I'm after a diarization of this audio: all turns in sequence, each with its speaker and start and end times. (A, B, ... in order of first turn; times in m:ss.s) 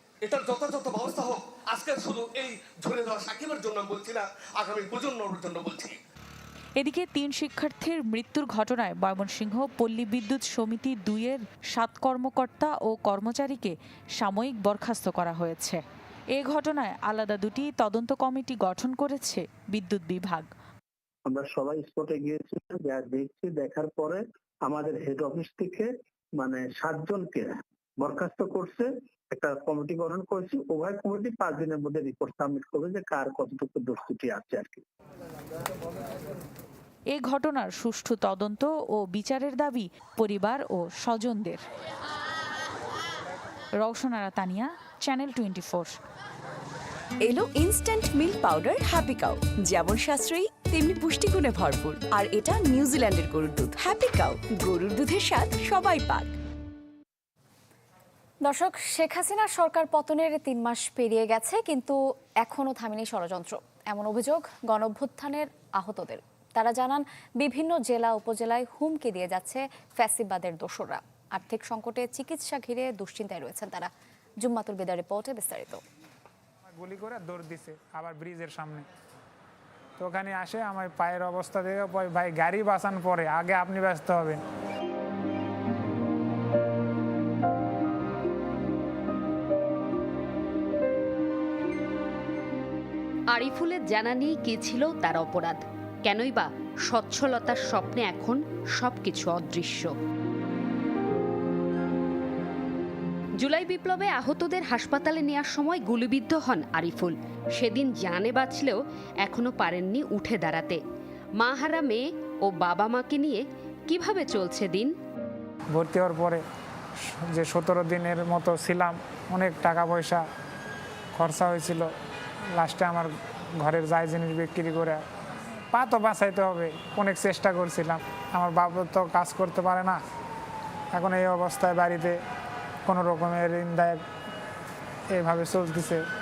0:00.2-0:06.0 A
0:06.8-0:15.8 B
0:16.4-0:20.5 B
0:21.3-0:34.8 C
0:37.1-0:41.6 B
0:43.8-0:46.0 B
0:47.2-0:56.3 D
0:58.4-1:13.9 E
1:14.4-1:15.8 E
1:16.8-1:18.9 F
1:20.0-1:24.4 F
1:33.3-1:39.9 G
1:43.4-1:50.8 G
1:51.4-1:54.9 G
1:55.7-1:56.4 F
1:57.3-2:00.2 F
2:01.2-2:01.9 F
2:02.6-2:05.0 F
2:05.7-2:10.0 F
2:11.0-2:12.2 F
2:12.9-2:14.0 F
2:15.1-2:16.0 F